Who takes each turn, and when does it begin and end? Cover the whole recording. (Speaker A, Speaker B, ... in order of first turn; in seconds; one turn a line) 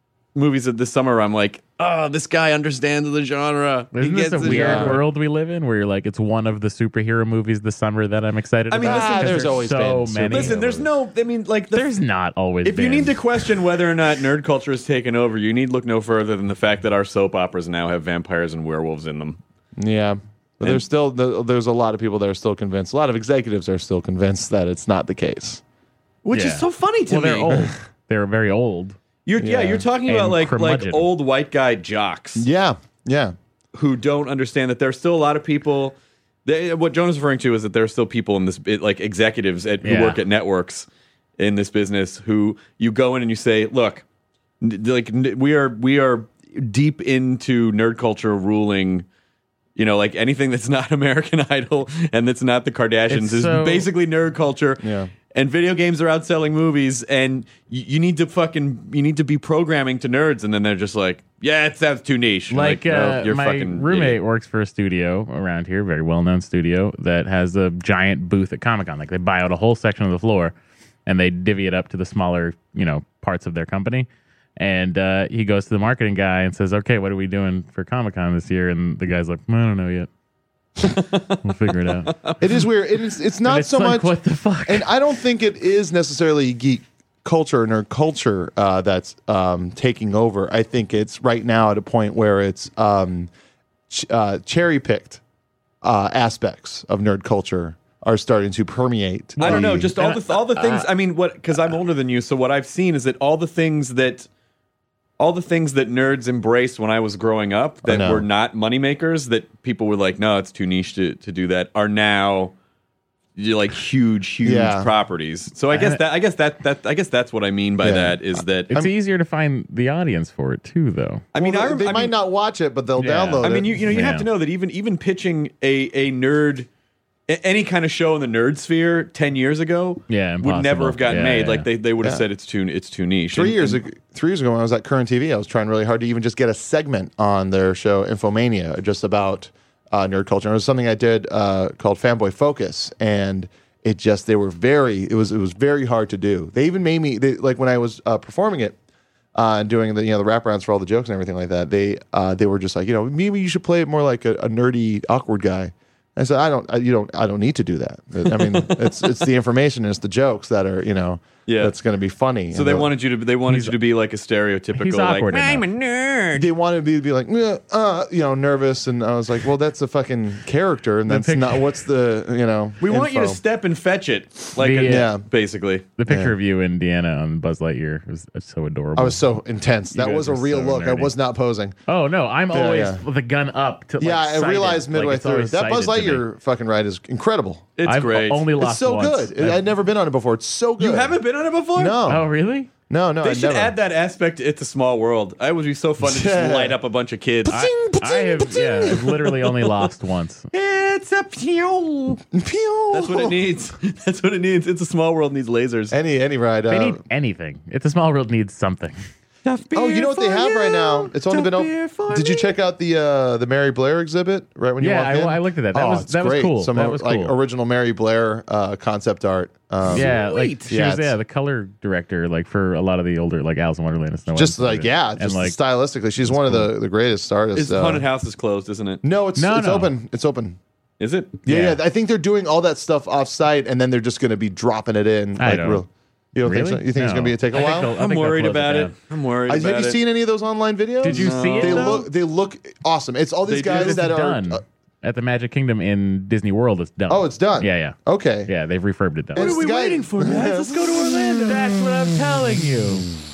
Speaker A: 0.3-5.0
Speaker B: 3.9-10.8
Speaker C: 4.4-5.0
Speaker A: 8.7-9.6
Speaker C: 8.8-10.8
Speaker A: 10.3-11.9
Speaker B: 11.7-13.4
Speaker A: 12.6-19.4
Speaker C: 19.8-25.6
Speaker A: 26.2-27.5
Speaker B: 26.3-29.0
Speaker A: 29.2-32.5
Speaker C: 29.4-29.9
Speaker B: 30.0-31.1
Speaker C: 32.4-33.3
Speaker A: 33.7-35.9
Speaker A: 36.5-40.9
Speaker B: 39.8-40.2
Speaker A: 41.4-44.0
Speaker A: 44.6-49.0
Speaker A: 49.8-64.2
Speaker B: 53.1-53.9
Speaker C: 54.8-55.1
Speaker B: 62.5-70.5
Speaker B: 71.0-74.1
Speaker B: 74.6-80.1
Speaker A: 80.8-81.4
Speaker B: 81.4-82.1
Speaker A: 82.1-82.4
Speaker C: 82.4-84.1
Speaker B: 83.4-84.9
Speaker C: 84.7-93.3
Speaker C: 93.9-95.2
Speaker C: 95.8-100.0
Speaker A: 99.4-104.3
Speaker B: 99.4-100.9
Speaker A: 105.2-112.5
Speaker C: 107.8-108.2
Speaker A: 113.4-118.7
Speaker C: 114.4-114.9
Speaker B: 115.7-116.0
Speaker C: 117.8-118.9
Speaker B: 118.7-121.2
Speaker A: 121.3-122.1
Speaker C: 121.3-123.9
Speaker B: 123.0-124.3
Speaker A: 123.4-126.7
Speaker A: 127.3-133.8
Speaker B: 130.1-131.7
Speaker C: 133.3-148.8
Speaker C: 149.3-162.9
Speaker A: 158.3-159.2
Speaker A: 161.5-161.7
Speaker A: 162.5-166.5
Speaker B: 163.5-163.7
Speaker B: 164.7-165.6
Speaker C: 166.3-173.4
Speaker B: 171.1-171.6
Speaker A: 172.8-175.9
Speaker B: 174.6-175.1
Speaker C: 174.8-175.2
Speaker B: 176.0-179.2
Speaker C: 176.1-176.3
Speaker C: 178.9-181.8
Speaker B: 179.9-181.1
Speaker B: 181.9-186.2
Speaker C: 182.5-183.0
Speaker C: 184.0-187.7
Speaker A: 187.8-188.4
Speaker B: 187.8-189.6
Speaker C: 188.6-191.2
Speaker A: 190.8-192.0
Speaker C: 191.8-192.2
Speaker B: 192.1-192.7
Speaker C: 192.9-193.7
Speaker A: 193.2-197.6
Speaker C: 196.0-196.8
Speaker C: 197.5-199.0
Speaker B: 197.5-200.5
Speaker A: 200.5-202.2
Speaker C: 202.3-203.4
Speaker A: 202.9-205.9
Speaker C: 205.9-207.0
Speaker B: 206.7-208.9
Speaker A: 209.4-212.5
Speaker C: 209.7-220.1
Speaker B: 214.8-217.4
Speaker A: 219.8-220.7
Speaker B: 219.8-225.6
Speaker C: 220.7-221.1
Speaker C: 224.3-228.0
Speaker B: 226.2-226.7
Speaker A: 227.5-229.0
Speaker C: 229.0-230.6
Speaker B: 229.4-229.9
Speaker A: 231.0-231.4
Speaker C: 231.4-237.9
Speaker B: 231.5-231.8
Speaker B: 235.4-235.8
Speaker B: 236.4-238.9
Speaker A: 237.6-240.0
Speaker C: 239.5-244.6
Speaker B: 241.0-242.0
Speaker A: 241.0-242.1
Speaker A: 243.5-244.0
Speaker B: 243.6-249.6
Speaker C: 247.1-248.5
Speaker C: 249.3-251.6
Speaker A: 249.3-251.7
Speaker B: 251.5-253.1